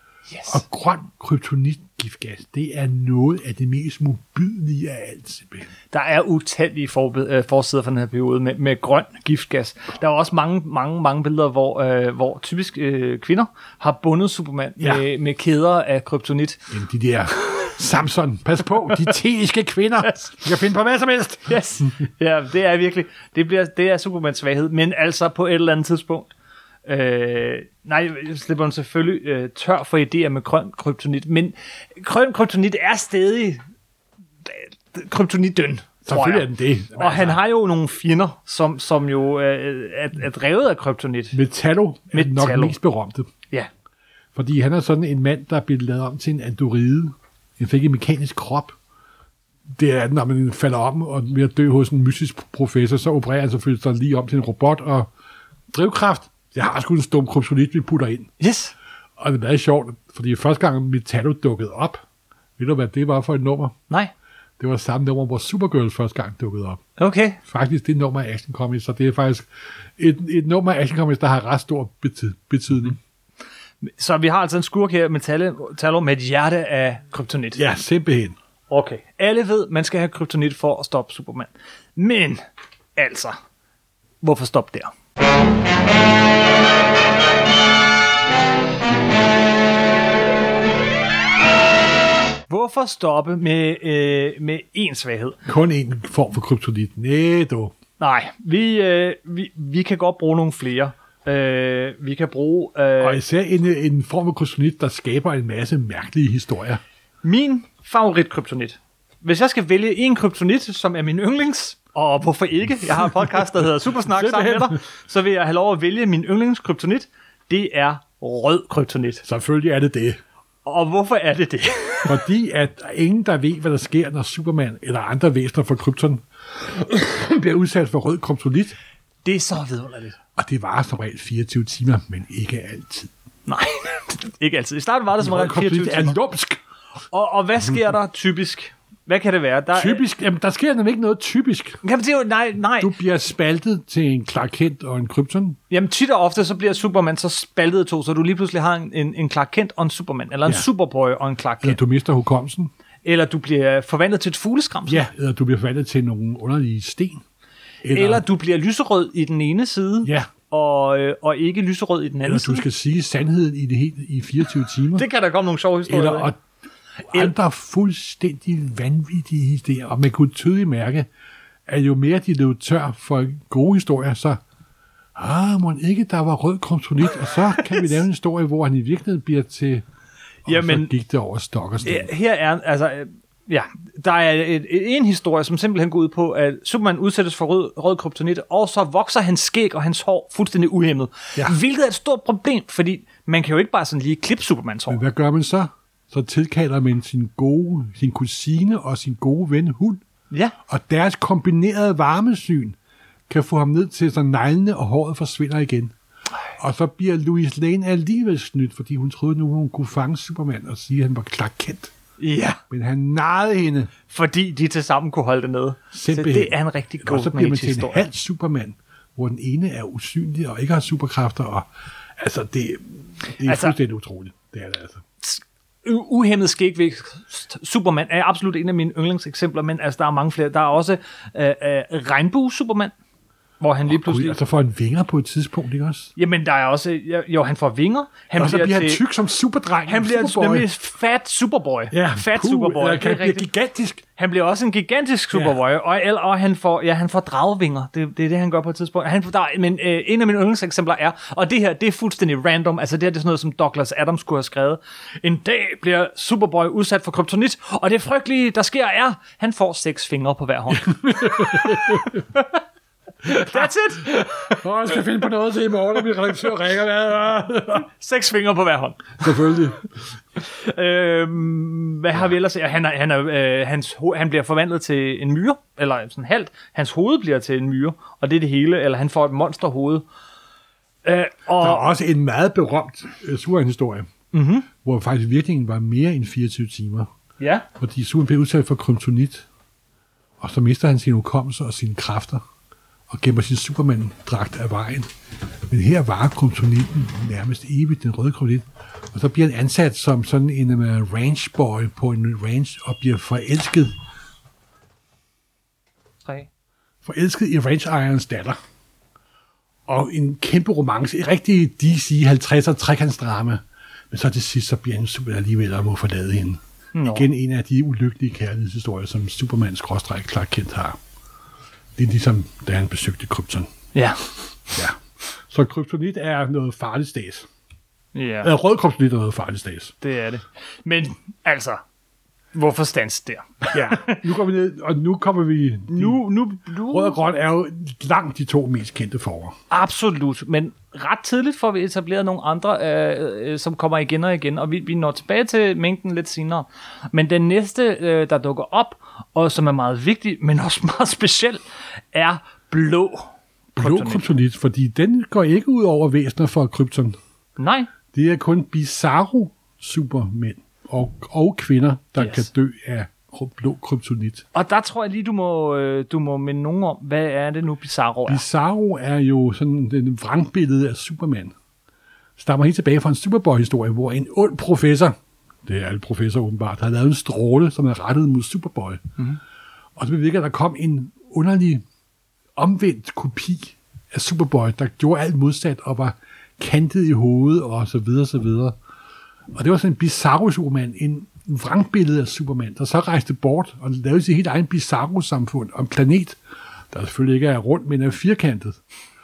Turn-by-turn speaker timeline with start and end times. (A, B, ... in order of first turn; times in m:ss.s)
0:00.3-0:00.6 A
0:00.5-0:05.7 B
0:05.9-0:16.6 A
0:16.7-0:21.9 B
0:21.5-0:26.3 A
0:26.8-0:33.6 A
0:34.4-0:41.4 A
0:36.0-0:37.4 B
0:41.3-0:43.3 B
0:42.1-0:42.8 A
0:44.3-0:48.7 B
0:49.7-0:55.1 B
0:55.7-0:58.3 B
0:58.4-0:58.7 A
0:59.2-1:02.0 B
1:02.6-1:03.8 B
1:04.6-1:06.8 B
1:07.0-1:07.4 A
1:07.4-1:13.0 B
1:13.8-1:17.6 A
1:17.5-1:18.4 B
1:18.7-1:22.4 A
1:23.0-1:23.4 A
1:24.2-1:24.9 A
1:32.5-1:35.4 A
1:35.4-1:37.7 B
1:38.0-1:43.2 A
1:43.0-1:46.8 B
1:47.2-1:59.2 A
1:54.0-1:54.8 B
1:59.2-2:00.2 B
2:00.6-2:02.2 A
2:02.1-2:08.8 B
2:09.2-2:10.2 A
2:10.4-2:13.1 B
2:13.5-2:16.2 A
2:15.2-2:16.6 B
2:17.1-2:20.0 A
2:19.7-2:21.8 B
2:21.8-2:22.9 A
2:22.8-2:25.6 B
2:25.7-2:31.8 A
2:31.6-2:32.7 B
2:33.0-2:35.0 A
2:34.9-2:37.2 B
2:37.8-2:38.2 B
2:37.9-2:42.6 A
2:40.0-2:40.3 B
2:42.2-2:45.0 B
2:45.0-2:46.3 A
2:45.9-2:46.4 B
2:47.1-2:51.1 B
2:51.7-2:54.4 B
2:55.1-2:59.8 B
2:57.6-2:57.9 A
3:00.4-3:02.1 B
3:00.4-3:00.9 A
3:01.8-3:15.0 A
3:14.9-3:20.0 B
3:20.7-3:22.8 B
3:23.3-3:25.9 B
3:26.6-3:31.9 B
3:32.2-3:32.6 A
3:32.7-3:33.9 B
3:34.1-3:38.0 A
3:35.9-3:45.0 B
3:43.4-3:43.8 A
3:45.2-3:52.9 A
3:53.6-3:54.4 A
3:53.9-3:56.1 B
3:56.2-3:59.0 A
3:58.3-4:00.7 B
3:59.9-4:03.5 A
4:01.9-4:04.0 B
4:04.2-4:22.5 A
4:20.7-4:22.3 B
4:23.2-4:27.9 B
4:23.3-4:24.6 A
4:27.9-4:29.2 A
4:29.2-4:29.8 B
4:30.4-4:40.0 A
4:41.0-4:41.8 A
4:41.6-4:44.1 B
4:44.3-4:44.7 A
4:44.8-4:47.1 B
4:47.4-4:47.7 A
4:47.8-4:49.4 B
4:50.4-4:52.4 B
4:53.1-4:55.1 B
4:55.7-5:04.0 B
5:07.0-5:08.6 B
5:09.9-5:21.0 B
5:16.9-5:17.3 A
5:22.0-5:23.7 B
5:23.9-5:24.2 A
5:24.7-5:27.5 B
5:28.1-5:28.5 A
5:28.4-5:29.9 B
5:30.0-5:31.8 A
5:32.5-5:34.2 A
5:33.7-5:39.6 B
5:35.9-5:37.2 A
5:39.7-5:51.6 A
5:52.1-5:54.2 A
5:53.7-5:57.2 B
5:57.6-5:57.9 A
5:58.1-6:04.4 B
6:02.2-6:02.5 A
6:04.5-6:08.4 A
6:08.2-6:11.5 B
6:12.4-6:19.2 B
6:20.0-6:21.8 B
6:22.6-6:28.8 B
6:29.5-6:36.4 B
6:36.9-6:38.8 B